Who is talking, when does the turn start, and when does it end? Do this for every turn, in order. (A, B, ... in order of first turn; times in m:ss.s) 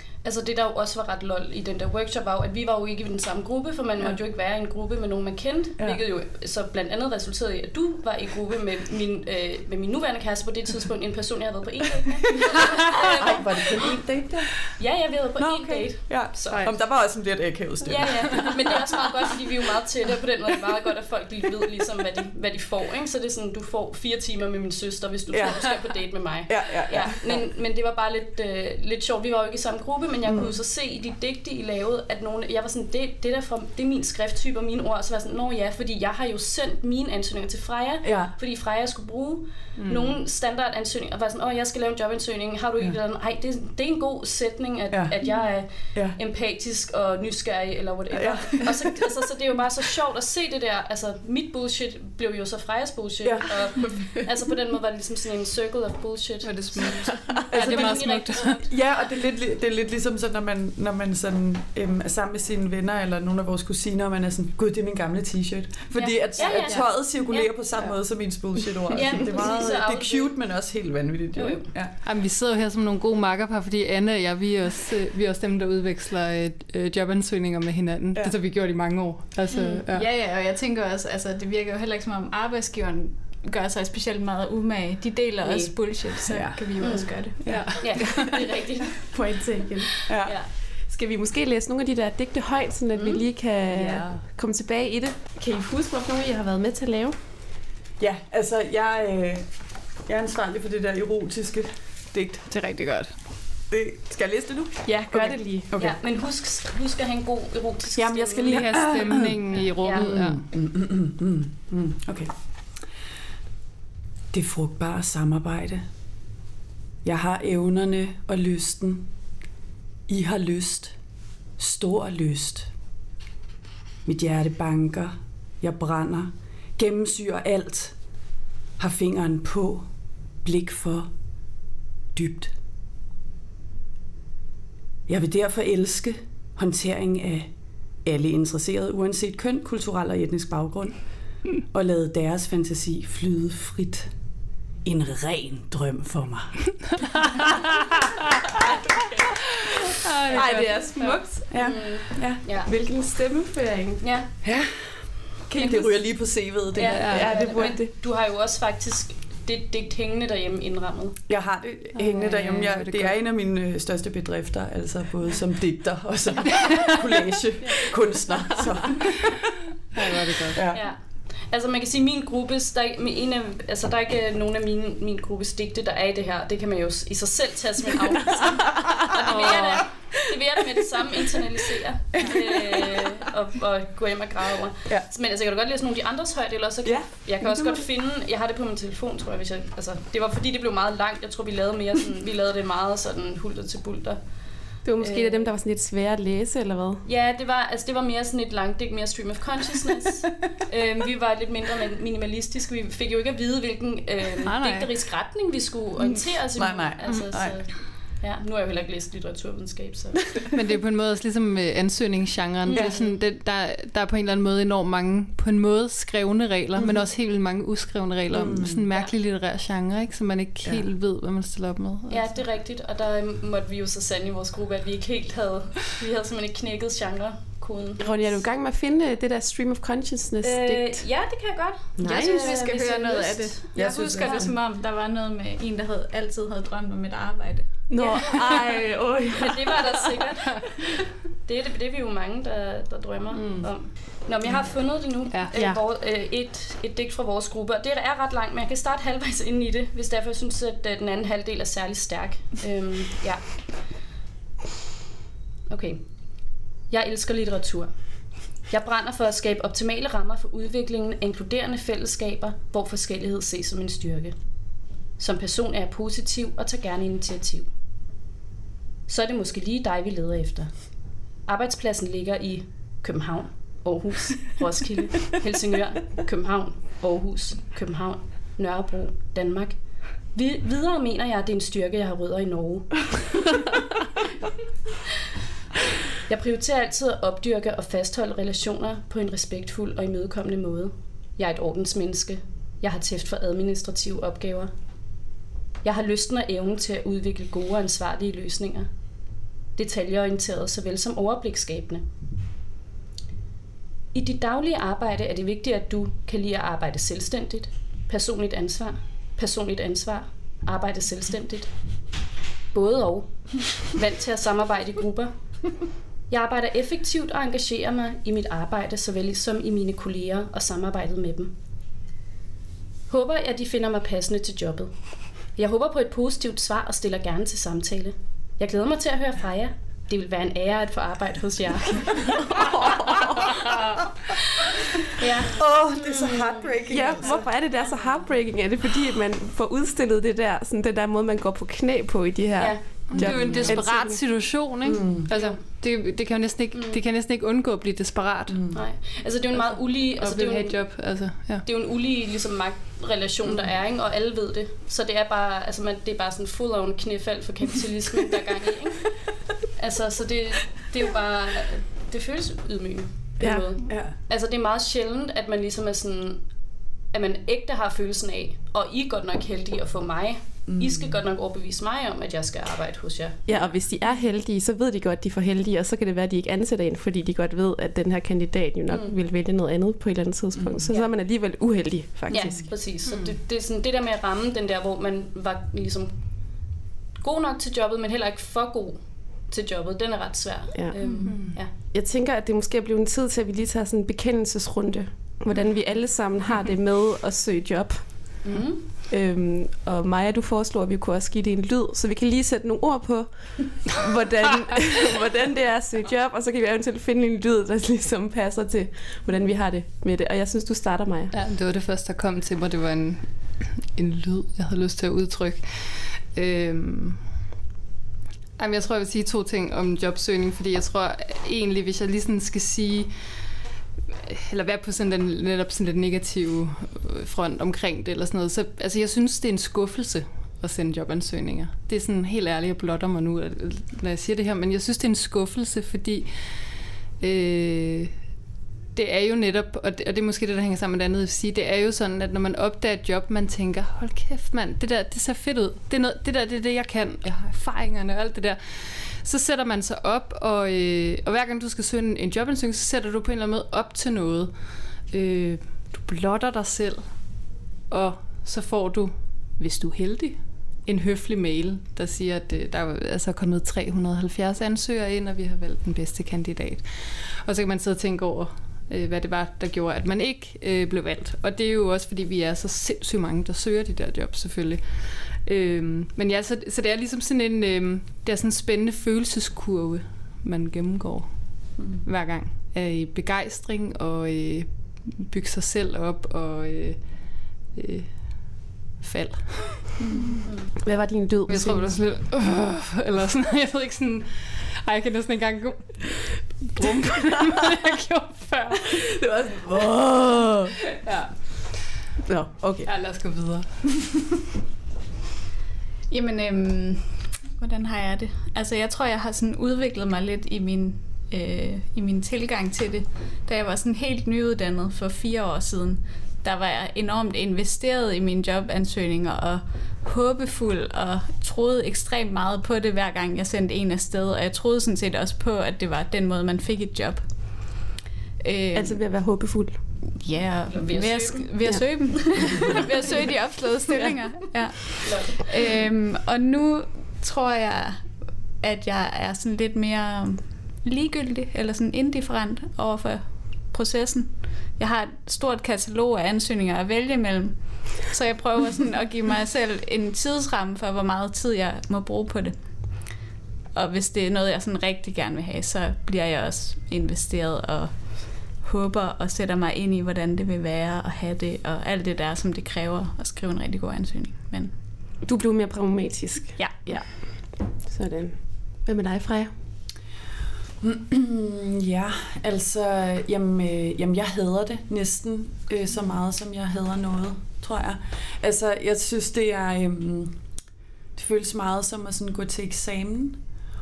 0:00.2-0:14.0 A
0:13.0-0:14.8 B
0:14.7-0:16.7 A
0:15.4-0:19.0 B
0:17.8-0:58.8 A
0:25.3-0:25.8 B
0:26.4-0:27.4 B
0:30.2-0:30.6 B
0:38.0-0:38.3 B
0:39.8-0:40.2 C
0:44.9-0:46.2 B
0:48.1-0:49.1 B
0:53.2-0:54.1 B
0:56.4-0:58.6 C
0:57.5-1:11.9 B
1:05.9-1:06.8 D
1:06.3-1:07.5 A
1:08.9-1:10.4 A
1:11.3-1:11.6 A
1:12.0-1:19.8 C
1:19.5-1:28.4 D
1:19.8-1:20.1 B
1:25.4-1:25.7 A
1:26.2-1:28.4 B
1:26.8-1:29.4 A
1:27.4-1:27.8 C
1:29.1-1:29.9 E
1:30.1-1:30.3 B
1:30.2-1:30.5 A
1:30.8-1:37.1 E
1:32.9-1:33.2 A
1:33.7-1:34.2 C
1:38.0-1:42.5 B
1:42.5-1:43.1 C
1:43.7-1:46.0 B
1:44.8-1:45.7 E
1:45.8-1:49.1 A
1:47.9-1:49.4 B
1:48.5-1:50.4 C
1:49.8-1:50.1 A
1:49.9-1:52.8 B
1:54.3-1:55.8 B
1:57.0-1:59.1 B
2:00.1-2:00.9 B
2:01.6-2:02.7 B
2:04.0-2:08.0 B
2:08.8-2:09.9 B
2:10.4-2:11.1 B
2:12.1-2:12.5 B
2:15.1-2:17.5 B
2:18.0-2:24.1 B
2:24.8-2:27.2 B
2:30.0-2:31.2 C
2:30.3-2:31.6 E
2:31.5-2:32.4 B
2:31.6-2:32.7 A
2:32.4-2:34.0 E
2:34.0-2:34.3 A
2:34.4-2:37.4 B
2:35.6-2:41.2 A
2:36.9-2:37.3 C
2:37.0-2:37.9 E
2:41.3-2:49.6 B
2:41.9-2:43.2 C
2:49.9-2:50.6 C
2:50.4-2:50.8 B
2:50.7-3:14.2 A
2:59.2-2:59.8 B
3:02.1-3:03.1 B
3:06.8-3:07.8 E
3:14.8-3:17.0 E
3:15.0-3:15.5 A
3:17.0-3:30.4 A
3:24.4-3:24.9 C
3:26.6-3:27.6 B
3:30.5-3:42.4 C
3:32.7-3:33.2 A
3:38.3-3:38.8 B
3:42.1-3:48.4 A
3:48.0-3:51.1 E
3:50.4-3:53.6 A
3:52.0-3:52.5 E
3:52.0-3:58.4 D
3:53.7-3:54.6 B
3:57.9-4:00.0 E
3:58.0-3:58.5 A
3:59.3-4:00.8 A
4:01.4-4:13.7 A
4:05.5-4:05.8 E
4:15.7-4:16.0 A
4:16.9-4:24.3 A
4:25.2-4:27.7 A
4:29.1-4:30.9 A
4:31.4-4:43.6 A
4:46.2-4:54.7 A
4:55.8-4:58.9 A
4:59.8-5:02.0 A
5:04.1-5:11.7 A
5:12.7-5:15.3 A
5:16.3-5:21.5 A
5:23.1-5:24.9 A
5:25.4-5:33.3 A
5:32.6-5:33.1 E
5:35.1-5:36.7 A
5:35.5-5:37.4 B
5:36.9-5:44.2 E
5:42.6-5:43.8 A
5:43.1-5:48.6 C
5:43.2-5:43.7 B
5:44.8-5:45.3 B
5:45.3-5:45.6 A
5:46.7-5:47.0 A
5:48.5-5:48.8 B
5:48.7-6:06.4 A
5:49.5-5:51.6 C
6:03.4-6:03.6 E
6:03.8-6:04.1 B
6:07.1-6:13.7 A
6:10.7-6:11.1 B
6:13.4-6:22.7 E
6:18.9-6:19.1 A
6:20.5-6:20.9 B
6:22.3-6:26.1 A
6:23.0-6:23.3 C
6:27.2-6:31.7 A
6:30.7-6:38.5 E
6:31.0-6:31.3 D
6:31.2-6:31.6 C
6:38.4-6:38.9 A
6:39.1-6:51.3 E
6:51.3-6:57.3 C
6:58.6-7:03.5 C
7:04.1-7:18.2 C
7:18.9-8:10.3 C
8:10.8-8:12.0 E
8:11.5-8:19.2 C
8:18.9-8:20.8 E
8:21.0-8:21.7 C
8:22.2-8:22.9 E
8:22.8-8:24.2 C
8:26.1-8:47.9 D
8:48.4-8:49.0 D
8:48.7-8:49.8 E
8:50.2-9:13.1 D
8:50.7-8:52.7 A
8:51.6-8:52.4 E
8:55.0-8:55.5 A
9:13.7-9:24.7 D
9:25.2-9:29.5 E
9:26.6-9:27.2 D
9:30.8-9:40.4 B
9:41.1-9:43.4 B